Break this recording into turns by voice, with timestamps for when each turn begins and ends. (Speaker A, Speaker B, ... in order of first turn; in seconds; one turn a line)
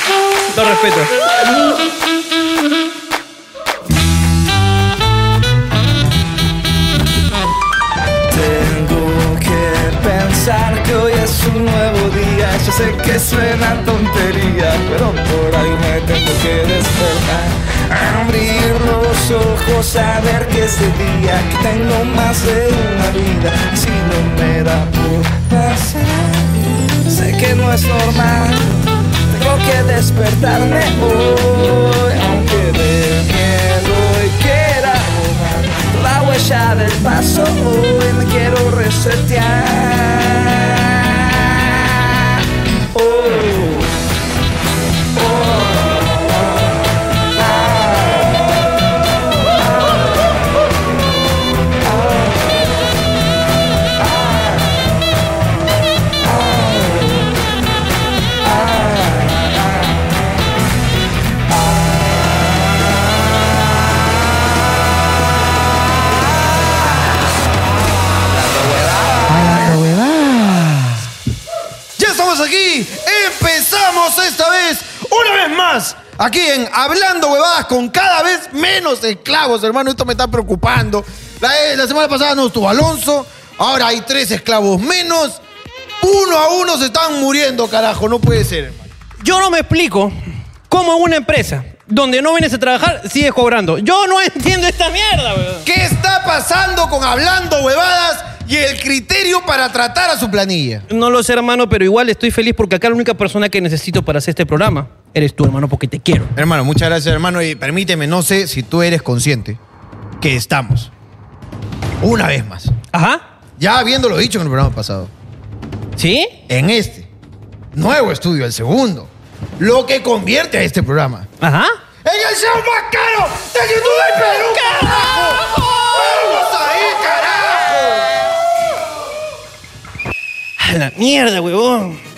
Speaker A: 0.5-1.1
Speaker B: 8.3-26.6
Speaker B: 27.1-28.8
Speaker B: 29.3-42.3
Speaker B: 42.9-43.9
Speaker B: 45.2-46.0
Speaker B: 47.7-48.3
Speaker C: 69.3-71.1
Speaker C: 72.0-85.4
Speaker C: 86.0-88.8
Speaker A: 89.2-90.1
Speaker A: 90.7-95.7
Speaker C: 95.6-100.8
Speaker A: 100.9-106.3
Speaker C: 106.3-109.6
Speaker C: 110.2-110.9
Speaker C: 112.0-112.7
Speaker A: 112.9-113.2
Speaker C: 113.6-115.1
Speaker A: 116.0-116.4
Speaker C: 116.5-117.1
Speaker C: 117.7-121.3
Speaker A: 121.4-121.8
Speaker C: 122.0-128.2
Speaker A: 130.6-132.0